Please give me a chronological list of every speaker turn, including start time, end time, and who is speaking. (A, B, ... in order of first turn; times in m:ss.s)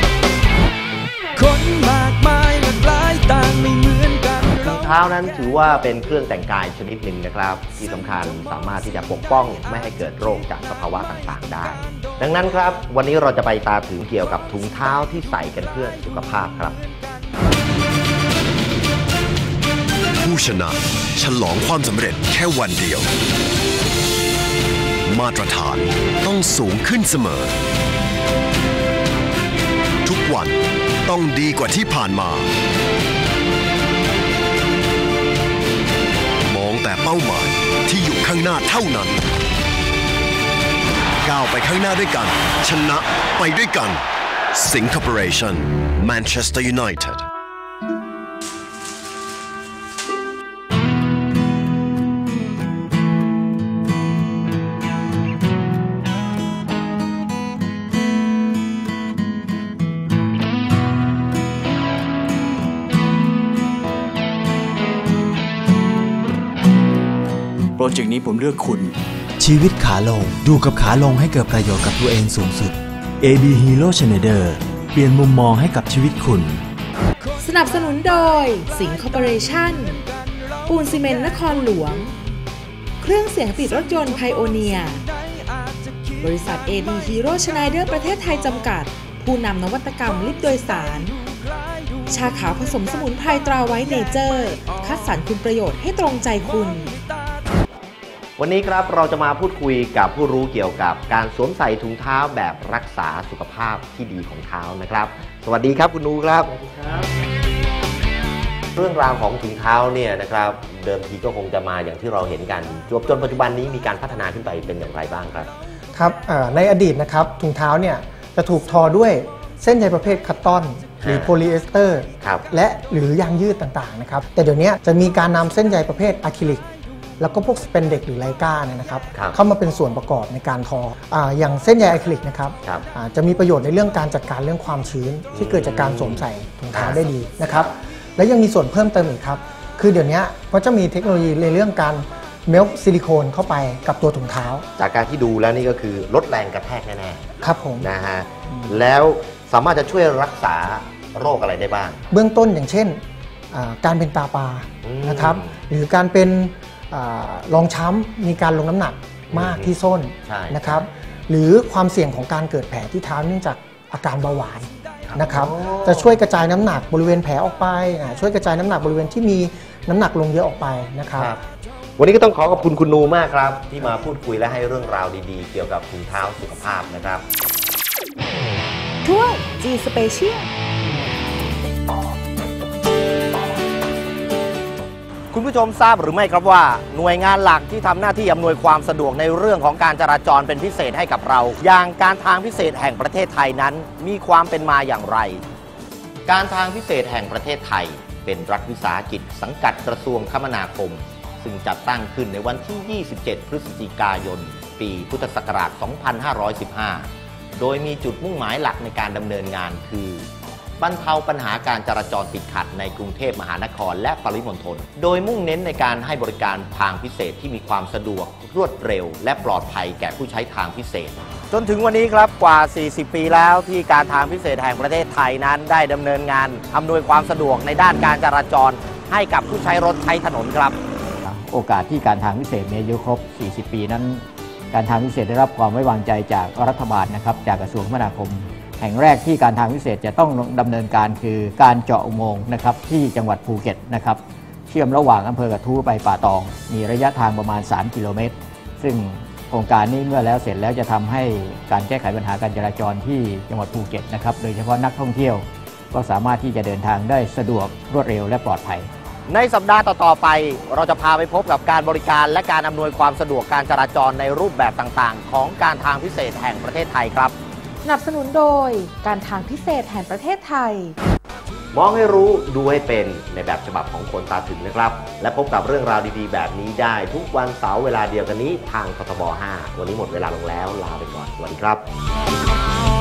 0:01.4-0:04.6 A
0:04.5-0:16.8 B
0:20.2-0:23.1 C
0:25.0-0:27.5 C
0:30.0-0:32.5 C
0:36.5-0:39.2 C
0:41.2-0:47.2 C
1:07.8-1:08.8 D
1:09.4-1:16.6 D
1:17.4-1:20.0 E
1:20.6-1:22.1 E
1:23.0-1:25.0 E
1:26.2-1:31.1 E
1:32.1-1:36.9 E
1:38.4-1:47.1 B
1:48.7-1:55.5 B
1:55.9-2:06.6 F
2:01.0-2:01.3 B
2:07.2-2:24.6 F
2:15.3-2:17.7 B
2:24.8-2:27.3 B
2:27.4-2:27.9 F
2:27.8-2:32.0 B
2:32.1-2:33.0 F
2:33.5-2:51.3 F
2:34.8-2:35.5 B
2:39.3-2:39.7 B
2:40.3-2:40.8 B
2:45.1-2:46.2 B
2:51.1-2:51.4 B
2:52.0-2:57.2 B
2:59.0-3:00.5 E
3:05.3-3:15.4 B
3:16.3-3:30.3 B
3:30.8-3:50.8 B
3:51.2-4:18.9 G
4:19.3-4:27.3 B
4:27.8-4:31.0 E
4:31.7-4:41.8 B